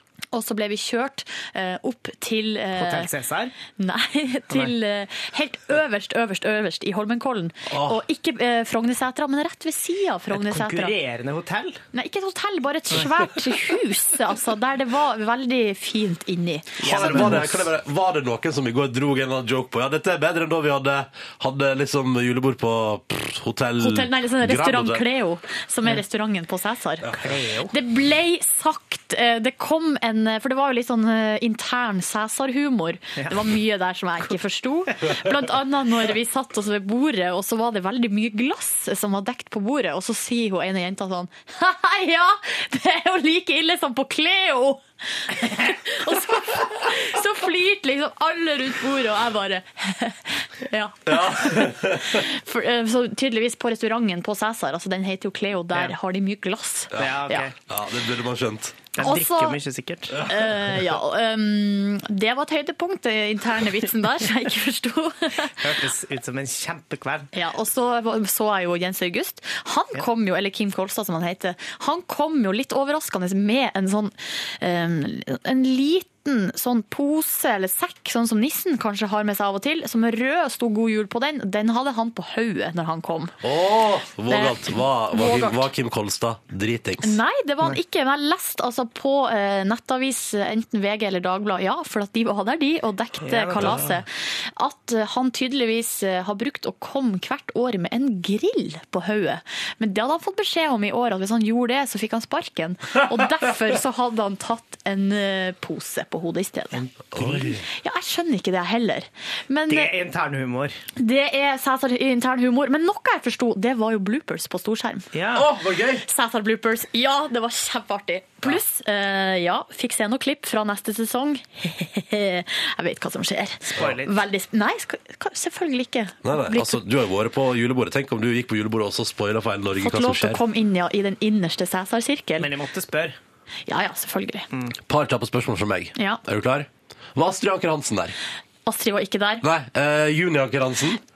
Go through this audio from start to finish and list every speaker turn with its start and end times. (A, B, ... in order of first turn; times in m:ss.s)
0:00.3-0:03.1 A
0:02.7-0:03.5 B
0:03.8-0:11.0 A
0:07.7-0:08.0 C
0:10.3-0:11.8 B
0:11.9-0:17.3 A
0:16.8-0:25.1 C
0:16.8-0:17.7 B
0:23.8-0:27.1 A
0:27.2-0:27.7 B
0:27.7-0:57.5 A
0:51.1-0:52.2 C
0:56.9-0:58.8 C
0:56.9-0:57.5 B
0:58.9-1:00.2 B
0:59.0-0:59.6 A
1:00.1-1:05.6 A
1:05.6-1:07.3 B
1:07.3-1:23.4 A
1:23.4-1:27.2 C
1:24.3-1:25.7 A
1:27.0-1:46.8 A
1:33.2-1:34.0 B
1:46.7-1:47.6 B
1:47.1-1:47.6 C
1:47.7-1:49.9 A
1:49.7-1:50.7 B
1:51.0-1:55.1 A
1:55.1-1:55.5 B
1:55.3-1:56.0 C
1:56.0-2:06.8 A
2:03.6-2:04.2 B
2:06.2-2:10.4 C
2:09.8-2:12.5 A
2:12.4-2:13.2 B
2:13.7-2:14.5 A
2:14.9-2:18.2 C
2:16.0-2:16.2 A
2:18.7-2:19.4 A
2:19.4-2:21.0 C